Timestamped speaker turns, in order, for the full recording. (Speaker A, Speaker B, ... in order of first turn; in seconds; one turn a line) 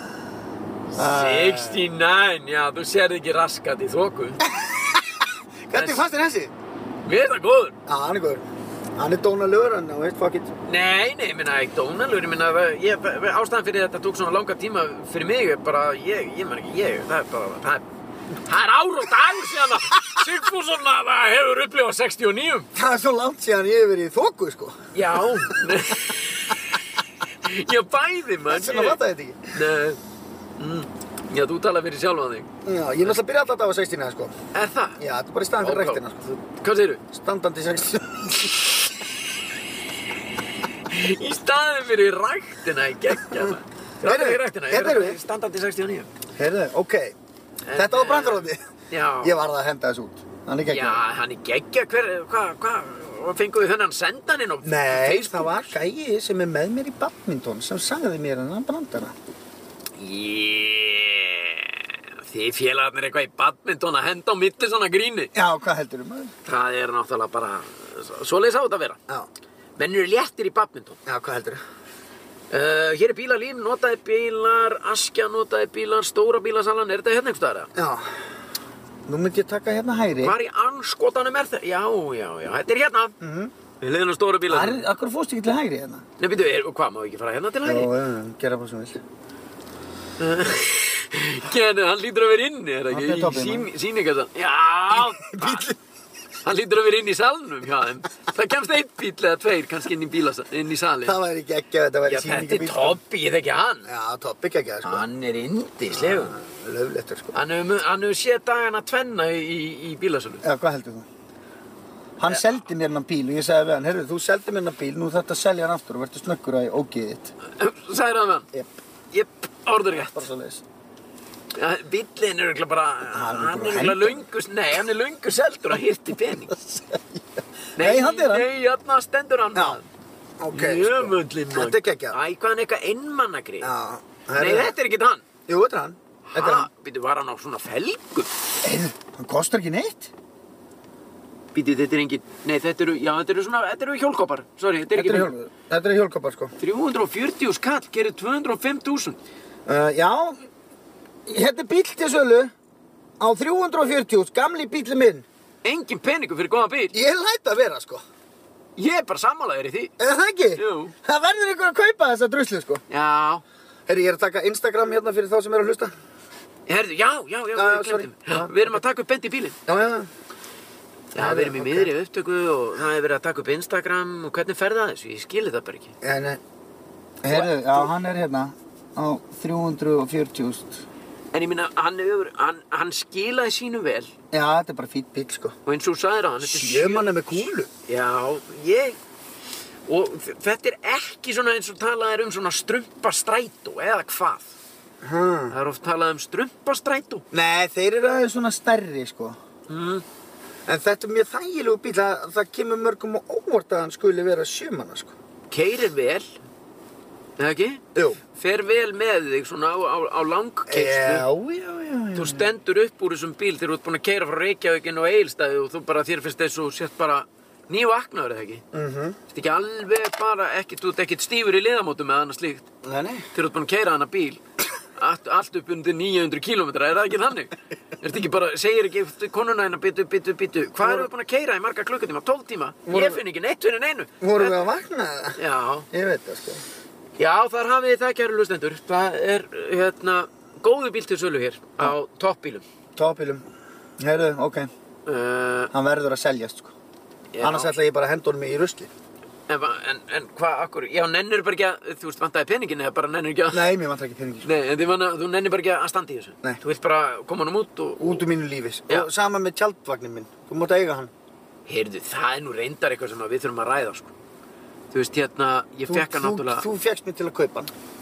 Speaker A: 0.9-4.4
Speaker B: 0.9-1.9
Speaker B: 4.5-6.5
Speaker A: 5.7-6.0
Speaker A: 7.0-7.8
Speaker B: 7.9-10.5
Speaker A: 10.7-17.9
Speaker A: 18.4-22.7
Speaker B: 22.8-24.8
Speaker A: 24.9-26.8
Speaker A: 27.4-29.0
Speaker B: 28.5-29.6
Speaker A: 29.5-30.0
Speaker A: 30.6-32.5
Speaker B: 32.6-34.4
Speaker A: 34.5-35.0
Speaker B: 35.0-36.3
Speaker A: 35.6-37.0
Speaker B: 37.1-38.6
Speaker A: 40.9-46.1
Speaker B: 44.0-45.2
Speaker B: 46.4-47.1
Speaker A: 47.7-49.4
Speaker B: 47.7-48.6
Speaker B: 49.2-51.0
Speaker A: 50.7-55.7
Speaker B: 54.6-59.1
Speaker A: 60.0-65.3
Speaker B: 65.3-66.3
Speaker A: 66.5-69.0
Speaker A: 69.8-71.0
Speaker B: 71.1-71.6
Speaker A: 72.5-77.7
Speaker B: 77.8-78.2
Speaker B: 79.1-80.4
Speaker A: 80.2-83.2
Speaker B: 83.2-83.5
Speaker A: 83.8-84.8
Speaker B: 84.5-86.1
Speaker A: 86.2-87.9
Speaker B: 87.6-89.0
Speaker A: 90.2-95.7
Speaker B: 92.9-93.7
Speaker B: 94.9-95.8
Speaker A: 96.4-101.2
Speaker B: 101.0-103.0
Speaker A: 102.1-103.9
Speaker B: 103.9-105.0
Speaker A: 104.8-106.4
Speaker B: 105.9-107.3
Speaker A: 107.3-110.4
Speaker B: 110.4-111.1
Speaker B: 112.2-117.3
Speaker A: 117.5-118.5
Speaker A: 119.1-120.3
Speaker B: 119.9-120.6
Speaker A: 121.5-126.6
Speaker B: 123.1-124.3
Speaker B: 126.5-128.5
Speaker A: 127.8-129.9
Speaker B: 129.5-129.8
Speaker B: 130.4-132.2
Speaker A: 130.5-133.7
Speaker B: 133.6-134.7
Speaker A: 134.4-135.2
Speaker B: 135.5-136.7
Speaker A: 136.3-138.3
Speaker B: 138.6-140.1
Speaker A: 141.5-145.3
Speaker B: 144.9-146.5
Speaker A: 146.6-149.2
Speaker B: 149.7-150.4
Speaker B: 151.3-152.5
Speaker B: 153.2-155.3
Speaker A: 155.6-156.9
Speaker B: 156.9-158.0
Speaker A: 158.8-159.9
Speaker B: 160.0-162.8
Speaker A: 160.6-160.9
Speaker A: 162.9-163.4
Speaker B: 163.9-165.9
Speaker A: 166.7-169.6
Speaker B: 167.6-168.8
Speaker B: 169.7-170.1
Speaker B: 171.1-171.9
Speaker A: 171.1-175.9
Speaker B: 176.0-176.4
Speaker B: 177.2-180.8
Speaker A: 177.3-177.9
Speaker A: 181.3-184.1
Speaker B: 184.3-185.6
Speaker A: 185.7-189.0
Speaker B: 186.4-187.7
Speaker A: 189.9-194.5
Speaker B: 195.0-195.6
Speaker A: 195.5-197.2
Speaker B: 197.3-199.4
Speaker A: 199.7-200.0
Speaker B: 200.7-205.1
Speaker A: 205.5-206.3
Speaker A: 207.4-211.2
Speaker B: 210.7-212.5
Speaker A: 212.2-218.6
Speaker B: 218.7-219.2
Speaker A: 219.3-222.7
Speaker B: 222.8-223.3
Speaker A: 223.3-224.4
Speaker A: 225.0-234.6
Speaker B: 230.8-231.1
Speaker B: 232.9-233.2
Speaker B: 234.2-235.4
Speaker A: 235.4-235.9
Speaker B: 235.9-236.7
Speaker A: 237.2-242.6
Speaker B: 243.0-243.4
Speaker B: 244.0-244.7
Speaker A: 245.1-245.7
Speaker B: 245.7-246.7
Speaker A: 247.3-247.7
Speaker B: 247.4-248.9
Speaker A: 249.5-253.7
Speaker B: 253.5-254.5
Speaker A: 254.4-258.3
Speaker B: 258.0-261.1
Speaker A: 261.7-264.1
Speaker A: 264.9-266.7
Speaker B: 265.9-267.7